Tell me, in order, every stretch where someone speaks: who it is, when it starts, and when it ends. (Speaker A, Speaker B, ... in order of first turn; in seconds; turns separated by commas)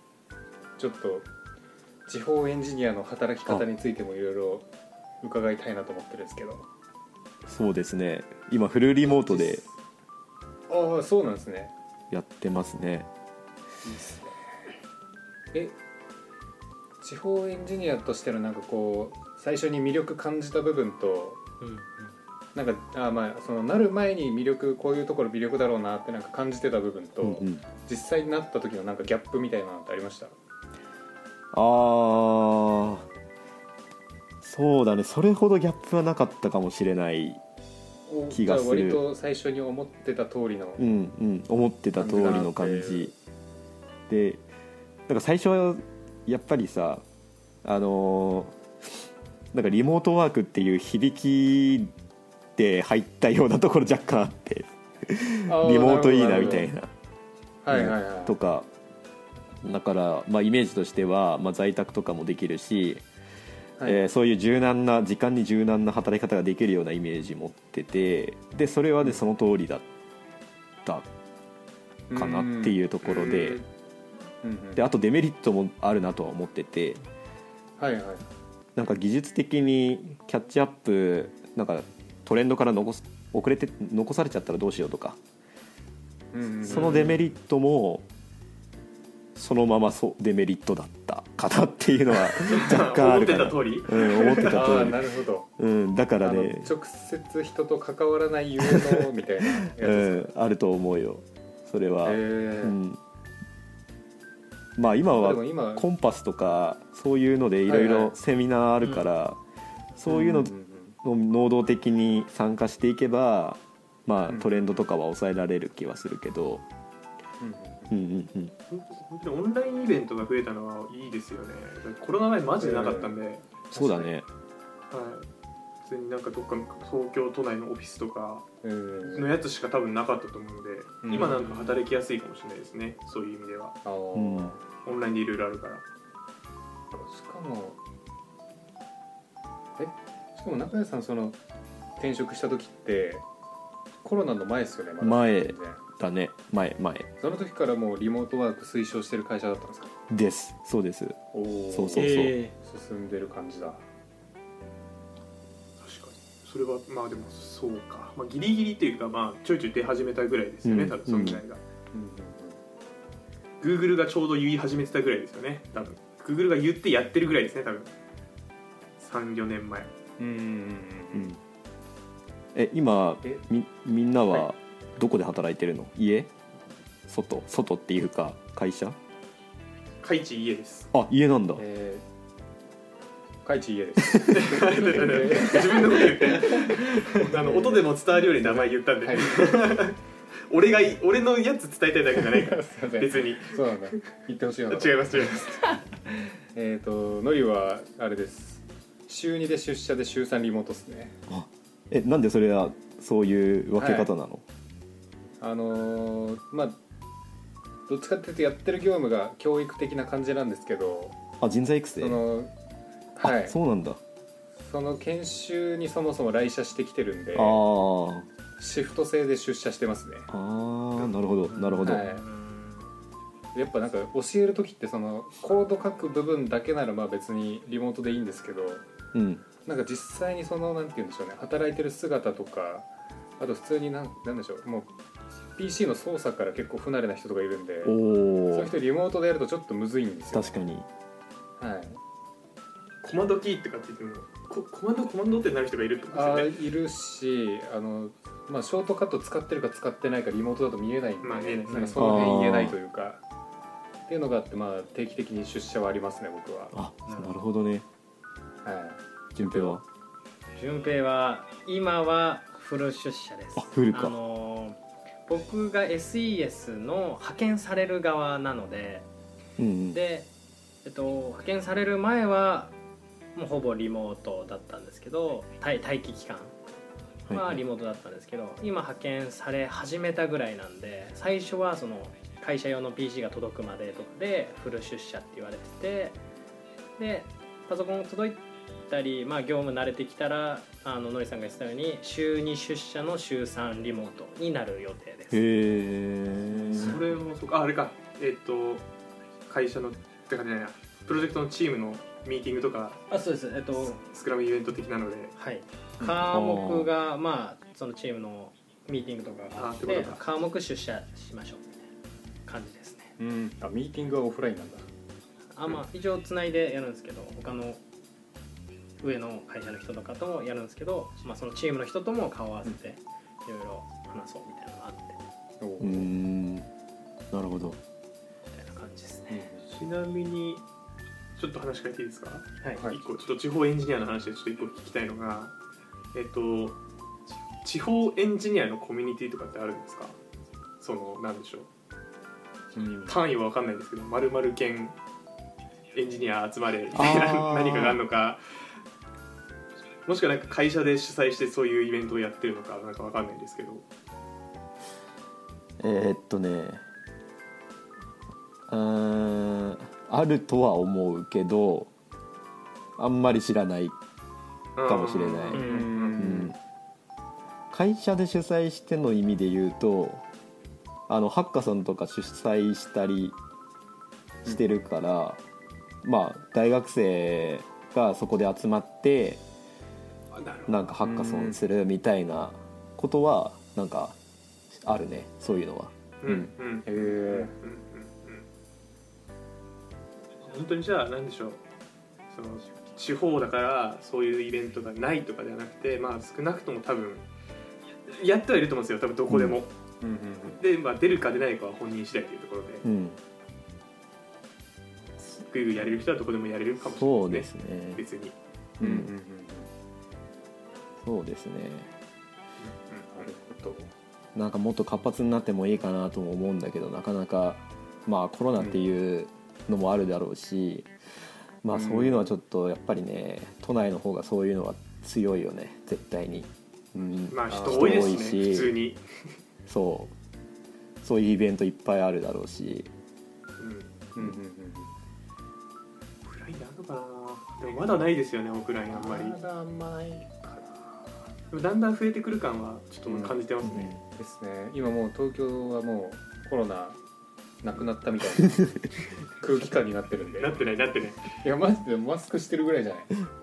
Speaker A: 0.8-1.3, Speaker A: 2.0-4.7, Speaker A: 5.2-6.7, Speaker B: 7.4-9.6, Speaker A: 9.1-9.7, Speaker A: 10.7-11.7, Speaker B: 12.1-13.1, Speaker A: 13.8-14.3, Speaker A: 17.0-21.4, Speaker C: 21.6-22.1, Speaker A: 22.6-30.4, Speaker B: 27.2-27.6, Speaker B: 31.5-33.1, Speaker B: 34.4-37.4, Speaker A: 38.1-40.8, Speaker B: 38.3-39.0, Speaker B: 40.8-43.1, Speaker A: 42.0-43.1, Speaker B: 44.1-44.4, Speaker B: 45.1-47.0, Speaker B: 47.6-48.6, Speaker B: 49.5-51.9, Speaker B: 52.5-56.9, Speaker A: 55.5-56.6, Speaker A: 57.6-58.3, Speaker B: 57.7-58.7, Speaker B: 59.6-63.0, Speaker B: 63.8-69.9, Speaker A: 72.1-73.7, Speaker B: 72.1-73.6, Speaker A: 74.4-74.8, Speaker B: 74.7-77.0, Speaker A: 77.8-78.3, Speaker B: 78.8-85.2, Speaker A: 86.3-87.3, Speaker B: 86.6-88.0, Speaker B: 89.3-95.0, Speaker D: 92.3-94.9, Speaker A: 94.5-95.5, Speaker B: 95.6-96.7, Speaker A: 96.2-100.3, Speaker B: 98.6-99.1, Speaker B: 99.6-103.0, Speaker A: 102.0-102.8, Speaker B: 104.8-109.4, Speaker A: 105.2-105.9, Speaker A: 107.7-108.1, Speaker B: 110.0-116.6, Speaker A: 110.0-111.0, Speaker A: 114.3-114.5, Speaker A: 117.4-117.9, Speaker B: 117.9-118.5, Speaker D: 118.7-123.5, Speaker A: 122.6-123.2, Speaker A: 123.7-124.1, Speaker B: 123.7-124.2, Speaker D: 124.9-125.3, Speaker D: 125.9-128.5, Speaker A: 128.6-129.3, Speaker D: 129.1-133.8, Speaker A: 131.0-131.8, Speaker A: 133.8-134.6, Speaker B: 134.1-134.6, Speaker D: 134.8-135.8, Speaker A: 136.9-137.8, Speaker A: 139.8-141.4, Speaker A: 142.0-143.2, Speaker A: 144.0-145.8, Speaker B: 145.0-147.1, Speaker A: 147.2-149.9, Speaker B: 150.1-151.2, Speaker A: 151.3-153.8, Speaker B: 151.7-152.3, Speaker C: 151.9-152.5, Speaker D: 155.8-161.6, Speaker B: 160.6-161.4, Speaker A: 161.9-162.6, Speaker D: 163.6-167.9, Speaker D: 169.0-169.9, Speaker A: 170.2-171.3, Speaker B: 171.1-171.4, Speaker B: 172.5-176.3, Speaker B: 177.1-179.0, Speaker D: 180.0-180.9, Speaker B: 180.9-181.6, Speaker A: 181.6-182.1, Speaker A: 183.4-189.5, Speaker D: 184.3-190.0, Speaker D: 190.5-193.6, Speaker A: 190.7-190.9, Speaker A: 192.3-195.3, Speaker D: 194.7-195.8, Speaker A: 196.5-201.2, Speaker B: 201.3-204.4, Speaker A: 203.8-204.1, Speaker A: 205.4-206.8, Speaker A: 207.9-211.2, Speaker B: 211.4-212.2, Speaker A: 212.0-212.5, Speaker A: 213.2-213.6, Speaker B: 213.2-214.0, Speaker A: 214.6-217.6, Speaker B: 217.3-218.3, Speaker A: 218.6-220.3, Speaker B: 220.3-222.1, Speaker A: 221.0-222.3, Speaker C: 222.0-222.9, Speaker A: 223.5-228.8, Speaker B: 229.1-229.4, Speaker A: 229.6-234.9, Speaker A: 235.5-238.0, Speaker B: 237.8-238.7, Speaker A: 238.5-240.6, Speaker B: 240.3-240.9, Speaker A: 241.6-242.0, Speaker D: 243.0-246.5, Speaker A: 246.1-253.2, Speaker D: 251.2-252.2, Speaker C: 251.7-251.9, Speaker B: 252.0-252.8, Speaker A: 254.1-256.7, Speaker B: 256.7-257.9, Speaker C: 257.1-257.3, Speaker A: 258.6-259.8, Speaker B: 259.4-259.8, Speaker C: 260.6-269.1, Speaker B: 263.6-264.2, Speaker B: 269.6-270.0, Speaker C: 269.9-270.3, Speaker C: 270.9-272.7, Speaker C: 273.4-276.6, Speaker B: 277.3-277.6, Speaker C: 277.3-286.2, Speaker C: 287.0-295.4, Speaker B: 295.3-297.0, Speaker D: 296.8-298.9, Speaker D: 299.5-303.0, Speaker C: 303.1-304.0, Speaker D: 303.8-305.3, Speaker C: 305.4-311.9, Speaker B: 306.0-306.9, Speaker D: 309.6-310.2, Speaker C: 312.4-313.1, Speaker A: 313.2-314.9, Speaker C: 315.5-317.8, Speaker C: 319.0-325.2, Speaker A: 325.6-326.1, Speaker B: 325.8-326.7, Speaker B: 327.3-327.8, Speaker C: 328.5-329.5, Speaker A: 329.3-329.7, Speaker D: 329.7-330.6, Speaker D: 331.4-335.6, Speaker D: 336.1-336.8, Speaker D: 337.6-340.2, Speaker D: 340.8-341.7, Speaker A: 342.7-343.2, Speaker D: 343.1-345.0, Speaker D: 345.9-348.4, Speaker B: 346.9-348.0, Speaker D: 350.1-353.9, Speaker B: 355.8-356.8, Speaker B: 358.7-361.9, Speaker B: 363.0-363.9, Speaker D: 364.8-366.2, Speaker B: 364.8-365.6, Speaker C: 365.5-365.9, Speaker A: 365.5-366.6, Speaker B: 366.2-366.6, Speaker B: 367.7-370.2, Speaker B: 371.1-373.4, Speaker B: 374.4-375.4, Speaker B: 376.0-379.4, Speaker D: 380.3-380.9, Speaker B: 380.7-384.2, Speaker A: 381.0-381.6, Speaker B: 384.7-386.4, Speaker D: 386.2-388.4, Speaker A: 386.3-387.6, Speaker D: 390.4-391.6, Speaker D: 392.3-397.2, Speaker D: 398.1-399.7, Speaker B: 399.3-399.6, Speaker A: 400.0-400.6, Speaker D: 400.5-402.9, Speaker B: 402.8-403.2, Speaker D: 405.3-408.4, Speaker B: 406.8-408.0, Speaker B: 408.8-409.1, Speaker A: 408.8-409.7, Speaker B: 411.0-411.9, Speaker D: 412.6-413.1, Speaker A: 413.1-413.9, Speaker B: 414.4-420.9, Speaker A: 418.6-418.8, Speaker B: 421.6-428.8, Speaker A: 421.7-422.3, Speaker D: 427.3-429.0, Speaker A: 427.5-428.3, Speaker B: 429.7-430.1, Speaker B: 431.0-432.9, Speaker D: 433.6-434.0, Speaker A: 434.1-434.9, Speaker D: 436.2-439.4, Speaker A: 438.9-441.3, Speaker D: 441.5-443.9, Speaker A: 443.1-443.4, Speaker B: 443.6-444.0, Speaker A: 444.1-447.0, Speaker A: 447.6-450.6, Speaker D: 450.4-451.4, Speaker A: 451.4-453.1